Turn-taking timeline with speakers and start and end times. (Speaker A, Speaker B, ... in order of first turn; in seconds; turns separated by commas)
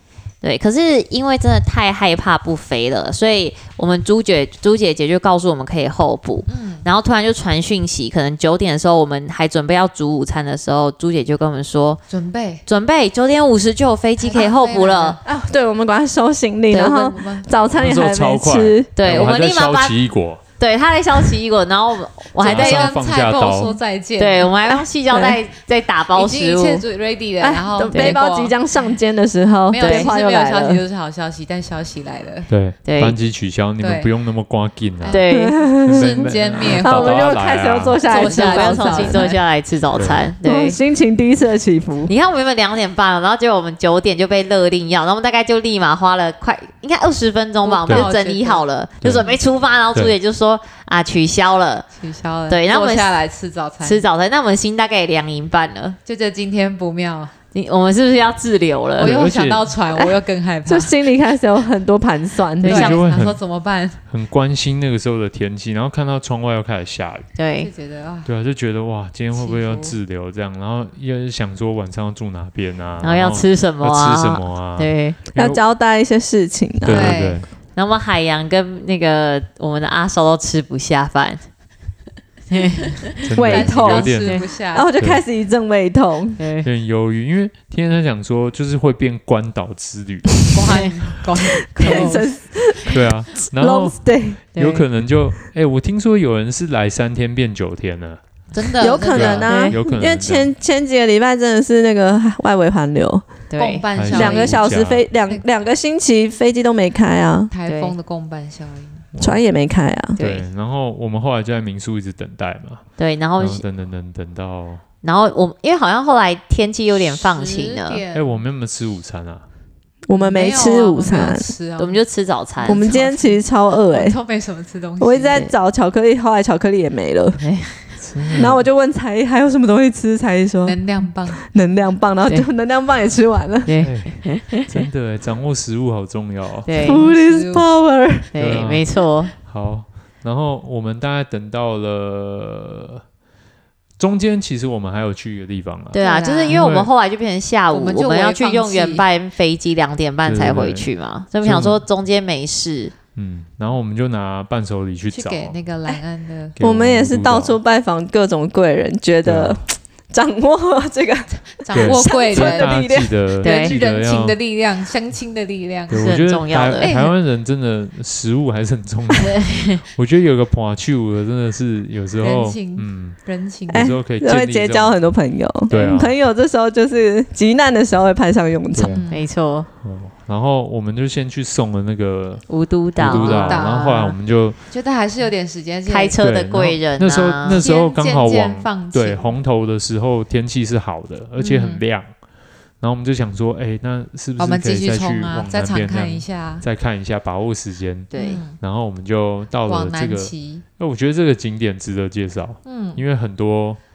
Speaker A: 0.4-12.0, Speaker B: 6.5-6.9, Speaker B: 12.1-12.6, Speaker A: 12.7-15.2, Speaker B: 14.2-15.2, Speaker C: 15.2-18.9, Speaker B: 16.9-17.5, Speaker D: 17.7-20.4, Speaker A: 18.9-20.0, Speaker A: 20.6-22.9, Speaker B: 22.4-24.5, Speaker D: 22.4-23.8, Speaker A: 24.2-26.8, Speaker C: 24.7-25.4, Speaker B: 26.1-28.6, Speaker C: 27.4-30.8, Speaker A: 27.9-28.2, Speaker B: 29.7-32.5, Speaker A: 29.8-30.1, Speaker D: 32.5-35.2, Speaker A: 32.8-33.2, Speaker B: 33.8-34.1, Speaker B: 35.0-37.4, Speaker A: 35.1-35.6, Speaker C: 35.3-36.1, Speaker D: 35.8-38.0, Speaker C: 36.8-39.3, Speaker B: 37.9-39.4, Speaker A: 38.1-40.8, Speaker D: 39.9-40.2, Speaker C: 40.4-42.1, Speaker A: 42.1-51.9, Speaker B: 47.6-49.4, Speaker B: 51.9-54.0, Speaker A: 52.5-53.1, Speaker A: 53.8-56.0, Speaker B: 56.0-57.3, Speaker A: 57.5-59.1, Speaker B: 59.0-60.9, Speaker D: 59.0-59.8, Speaker C: 60.6-62.9, Speaker A: 62.6-63.0, Speaker B: 62.6-64.0, Speaker D: 62.7-63.4, Speaker D: 64.1-67.3, Speaker A: 67.3-67.7, Speaker B: 67.6-68.3, Speaker D: 68.2-75.6, Speaker B: 69.3-70.0, Speaker A: 73.0-75.2, Speaker C: 75.3-77.2, Speaker D: 76.8-77.5, Speaker B: 76.9-77.4, Speaker A: 77.7-81.4, Speaker A: 82.5-83.0, Speaker D: 83.2-84.4, Speaker C: 83.3-86.4, Speaker B: 83.4-84.9, Speaker A: 86.4-86.7, Speaker D: 86.6-90.9, Speaker B: 90.5-92.3, Speaker A: 90.7-90.9, Speaker C: 91.7-94.4, Speaker D: 92.9-98.2, Speaker A: 94.5-94.8, Speaker B: 98.5-99.6, Speaker C: 98.8-103.2, Speaker D: 99.1-100.5, Speaker A: 99.4-99.8, Speaker A: 103.5-103.8, Speaker B: 103.6-104.7, Speaker D: 103.9-105.0, Speaker C: 104.1-107.5, Speaker B: 107.5-109.1, Speaker A: 107.7-107.9, Speaker D: 109.1-109.4, Speaker C: 109.2-110.2, Speaker A: 110.2-110.4, Speaker D: 110.2-114.8, Speaker A: 113.0-113.6, Speaker A: 115.0-118.0, Speaker B: 117.1-118.4, Speaker D: 118.1-119.4, Speaker C: 120.1-121.5, Speaker B: 120.1-122.0, Speaker A: 121.8-122.8, Speaker B: 122.6-125.4, Speaker C: 122.7-124.2, Speaker C: 125.0-127.4, Speaker A: 127.4-127.8, Speaker D: 128.0-128.6, Speaker C: 128.3-130.8, Speaker B: 130.6-131.4, Speaker C: 131.3-133.7, Speaker A: 133.6-134.7, Speaker D: 133.8-136.7, Speaker A: 136.7-137.0, Speaker C: 136.7-138.3, Speaker B: 136.8-137.7, Speaker A: 138.3-139.3, Speaker D: 138.3-143.0, Speaker D: 144.0-146.9, Speaker A: 145.9-152.9, Speaker B: 145.9-146.6, Speaker B: 147.7-149.0, Speaker D: 150.2-150.9, Speaker D: 151.4-151.8, Speaker D: 153.2-155.6, Speaker B: 155.1-156.5, Speaker D: 156.6-157.6, Speaker C: 156.6-163.1, Speaker D: 159.2-159.6, Speaker B: 161.6-162.7, Speaker D: 161.7-164.4, Speaker A: 163.4-163.8, Speaker B: 163.4-166.2, Speaker D: 165.9-175.0, Speaker A: 165.9-166.9, Speaker B: 166.8-167.1, Speaker A: 169.2-169.8, Speaker B: 172.2-173.9, Speaker C: 173.7-179.0, Speaker D: 175.7-176.1, Speaker D: 178.7-179.0, Speaker B: 178.8-179.2, Speaker A: 179.1-179.7, Speaker D: 179.8-184.6, Speaker A: 182.5-183.6, Speaker B: 183.0-184.2, Speaker B: 184.7-186.2, Speaker A: 185.9-187.6, Speaker D: 186.2-192.1, Speaker B: 187.5-189.3, Speaker B: 191.4-191.8, Speaker D: 192.8-203.8, Speaker B: 194.4-196.6, Speaker A: 198.1-198.4, Speaker B: 198.1-198.6, Speaker B: 199.7-200.6, Speaker B: 202.6-203.0